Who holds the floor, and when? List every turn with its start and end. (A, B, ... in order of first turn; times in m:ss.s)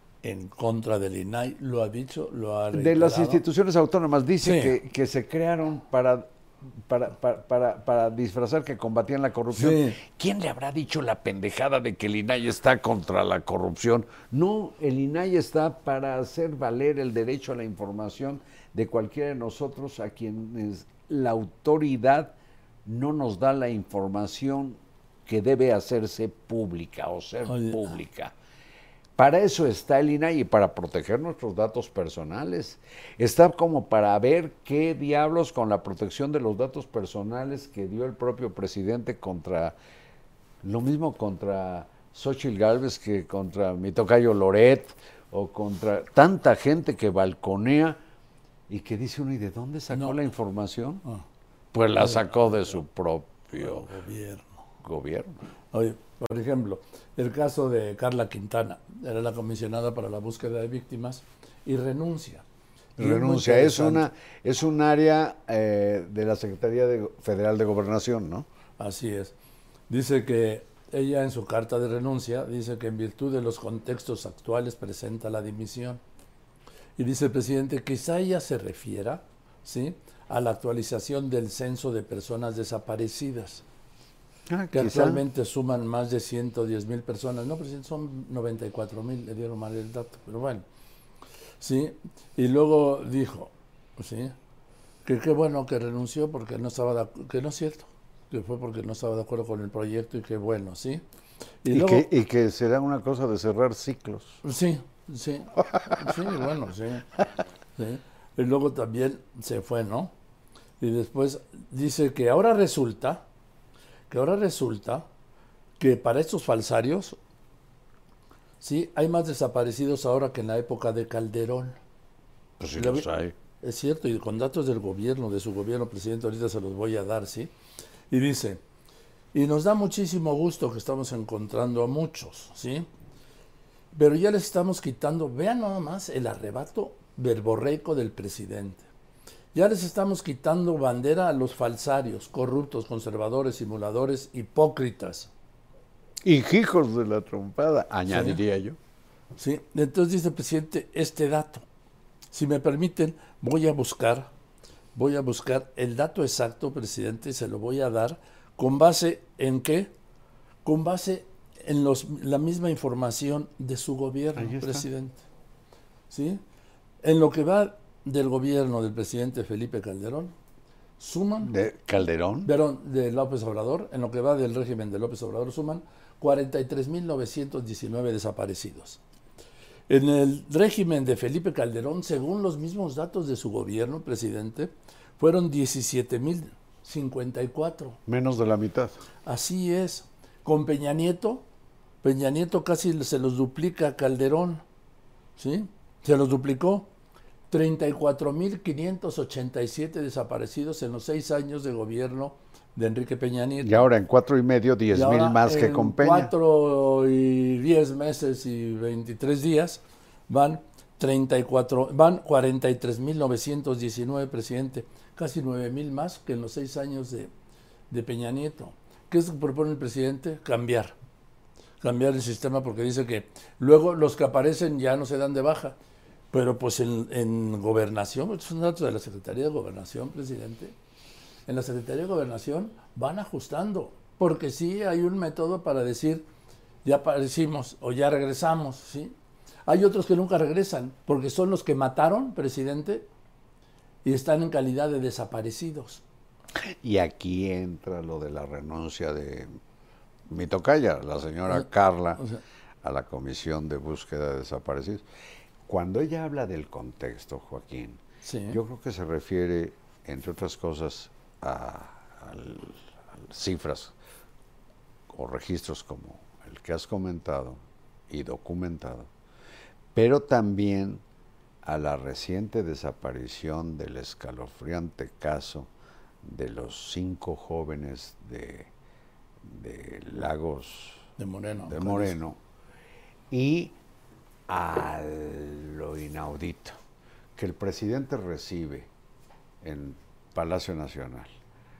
0:00.2-0:03.4 A
0:02.7-0:22.3 B
0:04.4-0:04.7 A
0:09.5-0:10.0 A
0:22.8-0:28.3 B
0:27.4-0:27.9 A
0:29.2-0:39.8 B
0:40.6-0:48.0 B
0:48.7-0:51.0 B
0:49.9-0:50.2 A
0:51.7-0:53.9 B
0:52.0-0:52.5 A
0:53.6-0:54.6 A
0:54.8-0:55.4 B
0:55.7-1:02.4 A
1:03.0-1:04.0 A
1:03.0-1:08.4 B
1:08.8-1:09.3 A
1:09.9-1:16.0 A
1:17.0-1:23.6 A
1:24.5-1:25.2 B
1:24.7-1:30.6 A
1:31.6-1:34.4 A
1:35.0-1:41.0 A
1:41.6-1:42.1 A
1:41.7-1:44.4 B
1:44.4-1:47.1 A
1:45.7-1:46.1 B
1:47.8-1:50.1 A
1:50.8-1:53.2 A
1:54.1-1:55.0 A
1:55.8-1:57.2 A
1:58.6-2:01.8 A
2:02.6-2:03.3 B
2:02.8-2:03.1 A
2:03.6-2:07.5 A
2:08.1-2:08.6 A
2:09.3-2:12.9 A
2:13.9-2:18.9 A
2:19.5-2:25.3 A
2:26.2-2:28.8 B
2:28.1-2:28.4 A
2:29.4-2:31.6 A
2:32.3-2:34.3 A
2:34.9-2:39.9 A
2:40.6-2:45.2 A
2:44.4-2:44.9 B
2:46.1-2:46.4 A
2:47.0-2:50.3 A
2:51.0-2:51.5 A
2:51.4-2:52.5 B
2:52.4-2:59.0 A
2:59.9-3:08.0 A
3:08.1-3:08.9 B
3:09.2-3:11.4 A
3:12.0-3:14.6 A
3:15.4-3:16.9 A
3:17.5-3:23.8 A
3:23.6-3:26.3 B
3:24.9-3:37.3 A
3:37.9-3:40.9 A
3:41.8-3:45.8 A
3:46.3-3:50.8 A
3:51.5-3:56.2 A
3:56.8-3:59.1 A
3:59.7-4:03.1 A
4:04.0-4:06.0 A
4:06.8-4:09.5 B
4:10.3-4:12.2 B
4:12.8-4:15.0 B
4:15.7-4:23.9 B
4:18.2-4:18.6 A
4:25.1-4:29.1 B
4:29.9-4:31.0 B
4:31.6-4:35.7 B
4:36.2-4:38.7 B
4:39.4-4:41.0 B
4:41.2-4:42.1 A
4:41.7-4:42.4 B
4:43.3-4:43.8 B
4:44.5-4:46.8 B
4:47.4-4:48.9 B
4:49.6-4:51.3 B